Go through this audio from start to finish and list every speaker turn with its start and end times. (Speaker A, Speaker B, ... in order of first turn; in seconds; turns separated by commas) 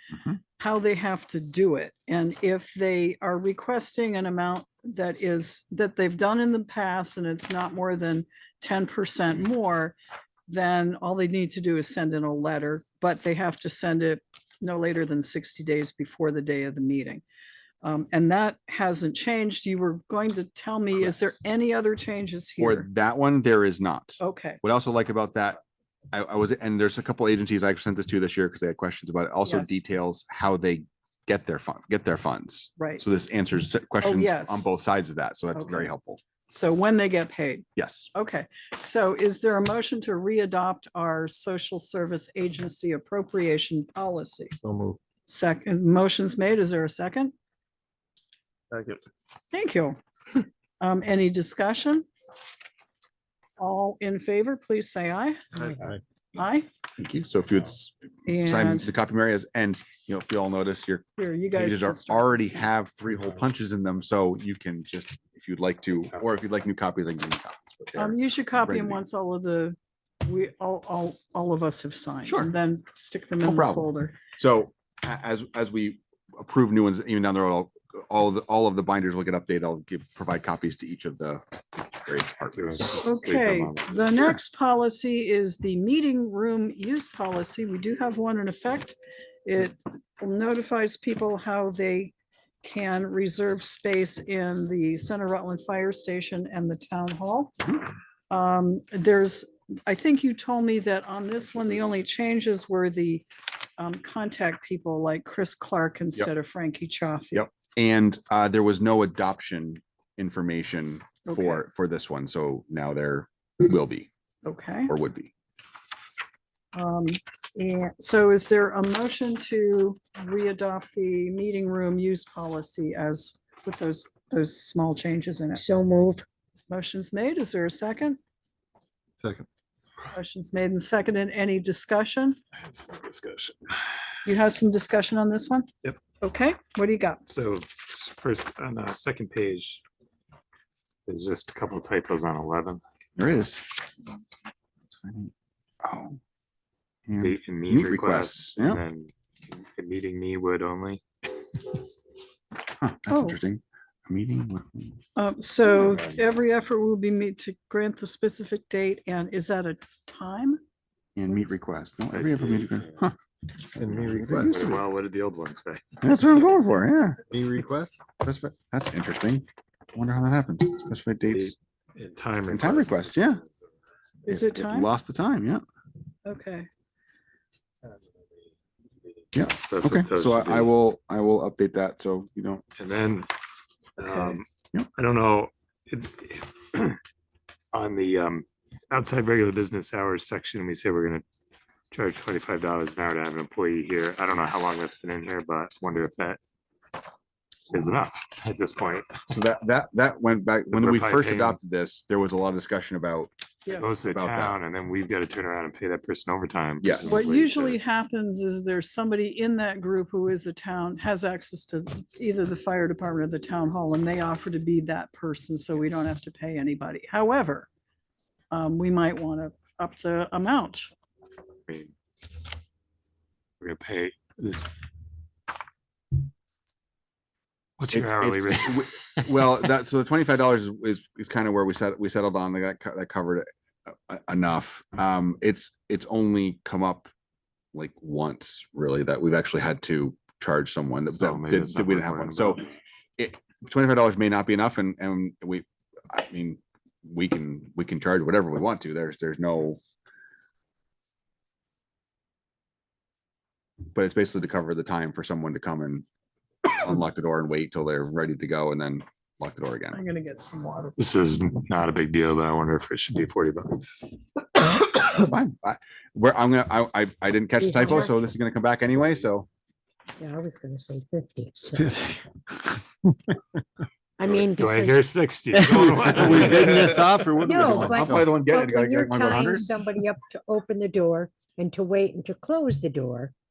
Speaker A: 0.6-10.0, Speaker A: 10.5-17.2, Speaker A: 17.8-22.9, Speaker B: 22.6-25.6, Speaker A: 24.2-24.6, Speaker B: 26.1-36.2, Speaker A: 29.4-29.8, Speaker A: 32.8-33.0, Speaker A: 34.0-34.7, Speaker A: 35.5-35.9, Speaker A: 36.5-44.6, Speaker B: 37.8-38.1, Speaker C: 44.6-45.0, Speaker A: 45.2-47.3, Speaker A: 49.5-50.0, Speaker A: 50.8-52.0, Speaker A: 53.6-55.8, Speaker A: 56.3-56.7, Speaker B: 57.0-69.0, Speaker A: 58.2-58.9, Speaker A: 61.2-62.7, Speaker A: 67.9-74.2, Speaker B: 72.2-72.5, Speaker B: 73.4-83.0, Speaker D: 82.5-84.3, Speaker A: 83.0-97.6, Speaker A: 98.3-103.3, Speaker A: 103.8-107.5, Speaker B: 107.3-114.1, Speaker A: 111.2-111.6, Speaker A: 114.4-114.9, Speaker B: 114.9-115.3, Speaker A: 116.7-125.7, Speaker E: 125.5-126.2, Speaker A: 126.7-128.2, Speaker C: 129.2-129.4, Speaker A: 130.1-132.4, Speaker D: 132.6-133.9, Speaker A: 134.2-135.7, Speaker A: 136.2-137.3, Speaker D: 137.3-139.8, Speaker D: 141.1-142.8, Speaker B: 143.2-143.7, Speaker B: 145.0-145.3, Speaker B: 145.8-146.2, Speaker B: 147.1-148.8, Speaker D: 147.2-151.0, Speaker B: 152.8-155.0, Speaker A: 153.1-153.4, Speaker A: 155.2-160.6, Speaker B: 161.2-163.1, Speaker D: 162.1-163.0, Speaker C: 163.8-164.6, Speaker B: 163.8-164.8, Speaker D: 163.8-166.7, Speaker B: 166.0-167.4, Speaker C: 167.3-168.0, Speaker B: 168.2-171.5, Speaker D: 171.3-173.7, Speaker B: 172.5-173.4, Speaker A: 174.2-174.9, Speaker B: 174.3-175.6, Speaker A: 176.2-176.7, Speaker D: 179.1-180.7, Speaker B: 179.3-182.6, Speaker D: 182.8-183.3, Speaker D: 184.0-187.0, Speaker A: 184.0-184.4, Speaker D: 187.7-191.2, Speaker D: 191.9-196.4, Speaker D: 197.7-199.1, Speaker B: 199.3-203.3, Speaker D: 200.7-201.6, Speaker D: 203.7-207.8, Speaker B: 203.9-204.6, Speaker B: 206.8-207.2, Speaker A: 207.1-217.7, Speaker A: 218.5-220.9, Speaker D: 221.7-221.9, Speaker D: 223.6-224.7, Speaker D: 227.8-229.6, Speaker B: 227.9-237.1, Speaker B: 237.7-242.7, Speaker D: 241.1-242.6, Speaker B: 243.2-249.8, Speaker B: 253.9-256.0, Speaker B: 256.7-260.0, Speaker A: 259.9-261.0, Speaker D: 261.0-264.1, Speaker B: 264.7-269.5, Speaker E: 267.6-268.3, Speaker E: 270.2-272.0, Speaker C: 271.8-272.2, Speaker E: 274.2-275.1, Speaker D: 274.2-277.5, Speaker C: 275.5-278.4, Speaker B: 276.2-277.0, Speaker E: 277.4-283.3, Speaker B: 277.5-279.8